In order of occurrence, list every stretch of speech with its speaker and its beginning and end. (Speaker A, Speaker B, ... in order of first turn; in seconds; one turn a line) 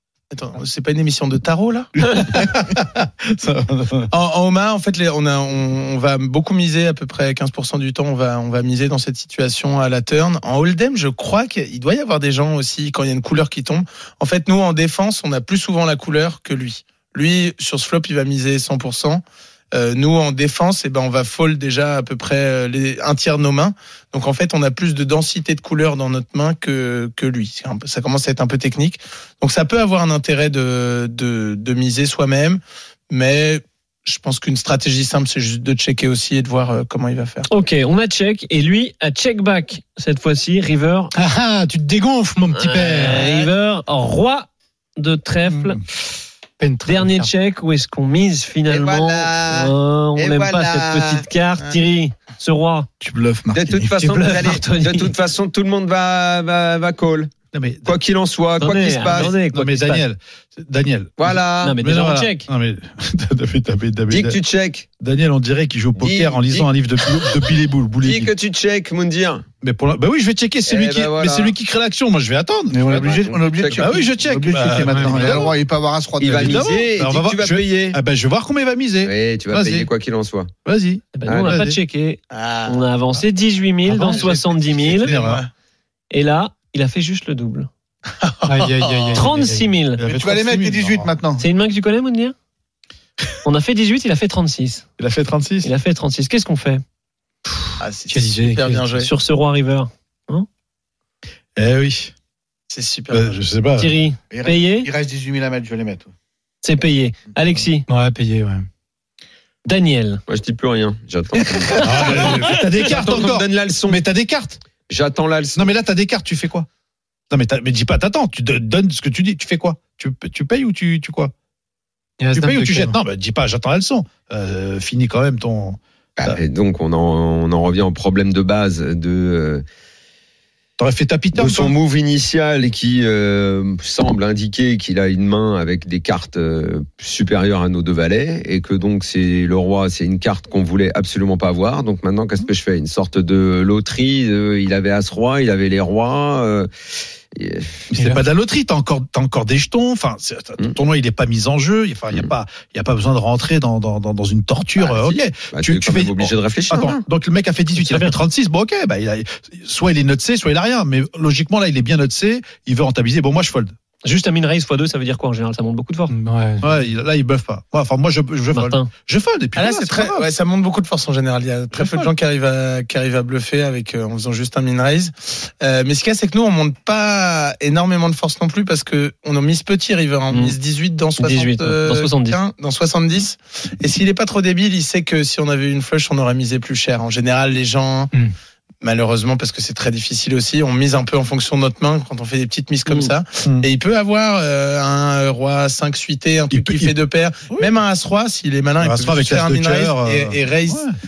Speaker A: 0.3-1.9
Speaker B: 2.2-4.1
Speaker A: 4.1-19.2
Speaker A: 19.7-37.5
Speaker C: 37.5-41.1
Speaker D: 41.1-43.2
Speaker C: 42.5-45.8
Speaker A: 43.0-43.5
Speaker D: 46.6-47.3
Speaker C: 46.8-52.9
Speaker E: 48.7-51.2
Speaker F: 53.0-53.9
Speaker E: 53.5-57.3
Speaker C: 54.0-55.1
Speaker B: 57.5-57.9
Speaker E: 57.8-59.4
Speaker C: 58.6-60.0
Speaker B: 59.0-64.4
Speaker E: 61.2-61.8
Speaker C: 61.6-62.5
Speaker E: 64.1-64.9
Speaker B: 65.0-68.3
Speaker E: 66.0-69.5
Speaker B: 69.6-72.8
Speaker E: 70.6-71.5
Speaker F: 72.7-76.9
Speaker E: 72.9-74.1
Speaker B: 73.7-75.5
Speaker D: 74.8-75.2
Speaker E: 76.2-78.0
Speaker B: 76.2-79.9
Speaker E: 79.0-80.5
Speaker B: 80.6-81.8
Speaker C: 81.1-85.2
Speaker E: 81.2-81.6
Speaker A: 82.3-83.2
Speaker B: 83.9-85.4
Speaker A: 84.0-85.5
Speaker C: 86.1-87.7
Speaker A: 88.2-89.2
Speaker D: 88.4-89.7
Speaker C: 89.1-90.0
Speaker B: 90.0-91.1
Speaker F: 90.0-91.5
Speaker C: 91.4-92.3
Speaker C: 93.4-94.9
Speaker B: 95.0-95.7
Speaker C: 95.6-96.8
Speaker D: 97.6-98.9
Speaker A: 97.8-99.1
Speaker C: 99.0-100.5
Speaker B: 101.5-102.1
Speaker A: 102.7-103.4
Speaker B: 103.1-103.9
Speaker C: 103.8-104.9
Speaker F: 104.3-106.1
Speaker C: 106.6-107.8
Speaker D: 107.9-108.7
Speaker C: 109.6-110.2
Speaker E: 110.3-114.0
Speaker C: 111.4-112.6
Speaker B: 111.8-114.6
Speaker E: 114.9-115.7
Speaker B: 115.5-116.7
Speaker B: 117.3-121.3
Speaker D: 122.2-123.0
Speaker B: 122.3-126.4
Speaker E: 126.2-129.6
Speaker B: 130.8-131.7
Speaker E: 131.3-146.7
Speaker E: 147.3-147.9
Speaker B: 147.9-163.7
Speaker D: 147.9-148.2
Speaker E: 154.8-157.0
Speaker C: 157.7-158.2
Speaker C: 164.0-166.1
Speaker D: 166.1-166.6
Speaker B: 166.6-170.2
Speaker C: 168.5-168.9
Speaker A: 169.5-188.1
Speaker B: 171.7-172.1
Speaker C: 180.3-180.6
Speaker C: 181.2-182.4
Speaker A: 188.8-200.9
Speaker B: 196.5-196.9
Speaker B: 198.8-200.9